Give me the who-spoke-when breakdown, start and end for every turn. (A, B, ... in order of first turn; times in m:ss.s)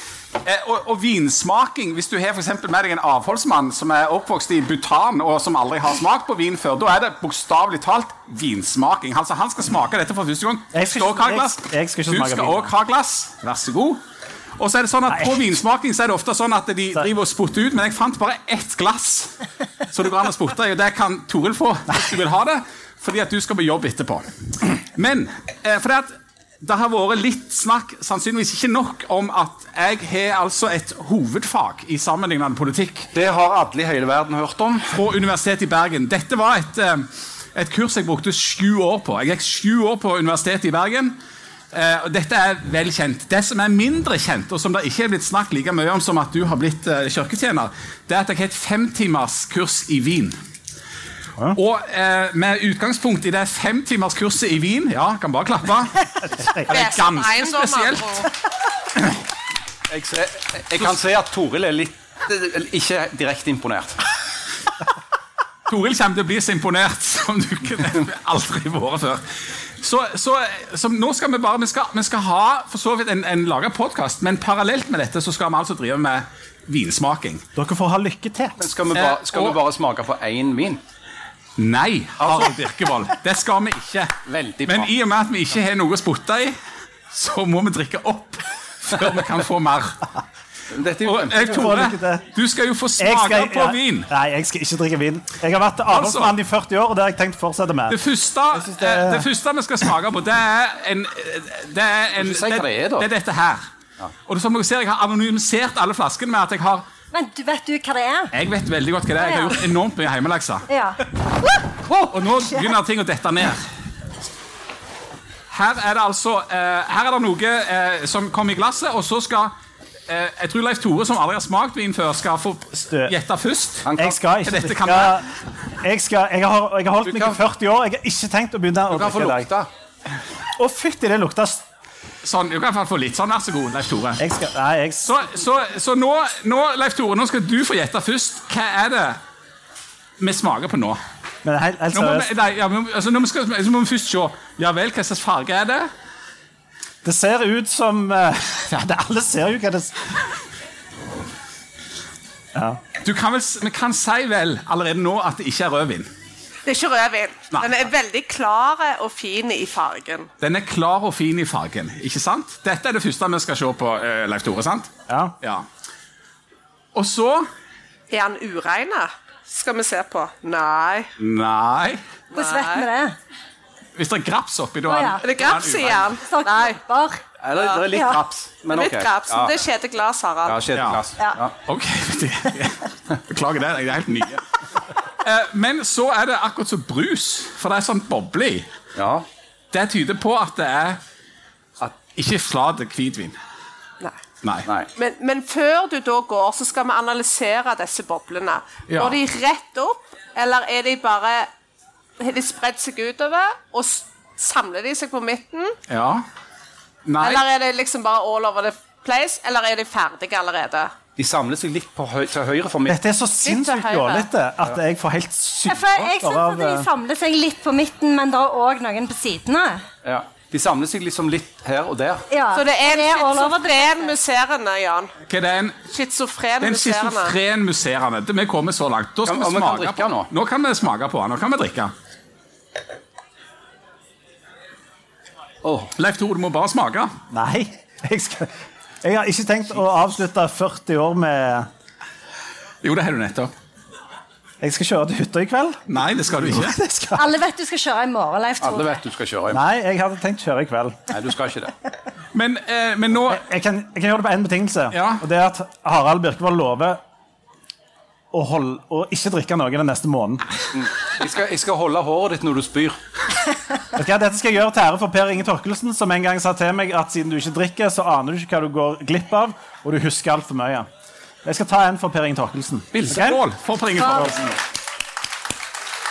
0:00.4-0:14.0 A
0:10.7-0:12.7 B
0:14.6-0:33.1 A
0:15.1-0:15.3 B
0:33.1-0:35.0 C
0:34.9-0:41.2 A
0:41.7-0:50.4 A
0:51.5-0:58.3 A
0:56.4-0:56.7 B
0:56.7-0:58.3 D
0:59.9-1:04.0 C
1:05.7-1:17.5 A
1:17.6-1:18.6 B
1:18.6-1:20.8 C
1:18.9-1:19.6 A
1:21.6-1:26.6 A
1:22.2-1:23.1 C
1:24.3-1:24.9 C
1:27.1-1:30.1 A
1:30.7-1:31.6 C
1:31.0-1:34.1 A
1:31.4-1:32.3 B
1:33.0-1:38.0 B
1:35.9-1:36.3 A
1:37.9-1:43.6 A
1:38.5-1:39.3 B
1:42.2-1:43.1 C
1:44.3-1:46.8 A
1:47.1-1:48.3 E
1:48.3-1:50.7 A
1:49.2-1:49.6 E
1:50.7-1:51.0 E
1:51.9-1:53.7 A
1:55.5-1:59.5 A
2:00.1-2:03.9 A
2:03.9-2:04.2 C
2:03.9-2:05.3 B
2:04.4-2:05.2 A
2:05.8-2:09.5 B
2:07.0-2:07.4 C
2:08.9-2:09.7 C
2:10.6-2:11.7 B
2:12.2-2:14.2 A
2:14.2-2:15.2 B
2:15.0-2:19.2 A
2:20.2-2:21.0 A
2:21.4-2:22.3 B
2:21.9-2:25.9 A
2:27.0-2:30.3 B
2:32.5-2:32.8 B
2:33.0-2:36.1 A
2:36.7-2:40.3 D
2:40.4-2:45.6 A
2:45.1-2:45.4 B
2:47.0-2:47.5 A
2:48.1-2:51.1 D
2:51.2-2:52.0 A
2:52.3-2:52.9 D
2:52.3-2:53.2 E
2:54.0-2:56.2 A
2:54.9-2:55.3 E
2:55.2-2:56.8 D
2:56.2-2:57.2 E
2:57.4-2:59.5 C
2:57.6-2:57.8 D
2:57.9-2:58.2 E
2:58.7-3:00.6 D
3:00.4-3:01.5 C
3:00.8-3:01.0 A
3:01.6-3:04.4 A
3:05.2-3:08.7 A
3:09.0-3:09.3 C
3:09.7-3:11.0 A
3:12.0-3:13.4 A
3:14.4-3:14.7 A
3:15.0-3:21.5 D
3:18.9-3:19.2 A
3:22.2-3:25.8 D
3:25.9-3:26.3 A
3:27.1-3:27.4 A
3:27.2-3:31.0 D
3:31.2-3:33.0 C
3:32.9-3:36.9 B
3:33.5-3:34.3 D
3:35.7-3:39.9 E
3:40.0-3:42.3 C
3:42.3-3:44.1 E
3:42.5-3:45.1 D
3:45.3-3:45.9 A
3:45.9-3:47.4 D
3:46.6-3:51.9 A
3:49.2-3:50.3 C
3:55.6-3:55.9 C
3:56.0-3:57.2 A
3:57.3-4:01.7 B
4:02.8-4:03.5 A
4:04.6-4:05.8 B
4:05.9-4:06.8 A
4:06.4-4:07.3 B
4:07.1-4:09.0 E
4:08.6-4:09.6 C
4:09.5-4:11.1 B
4:11.1-4:11.7 C
4:12.3-4:13.4 A
4:13.3-4:17.0 B
4:14.9-4:15.2 A
4:18.3-4:20.4 B
4:20.7-4:23.0 C
4:23.9-4:30.9 B
4:31.4-4:33.4 B
4:32.9-4:34.5 A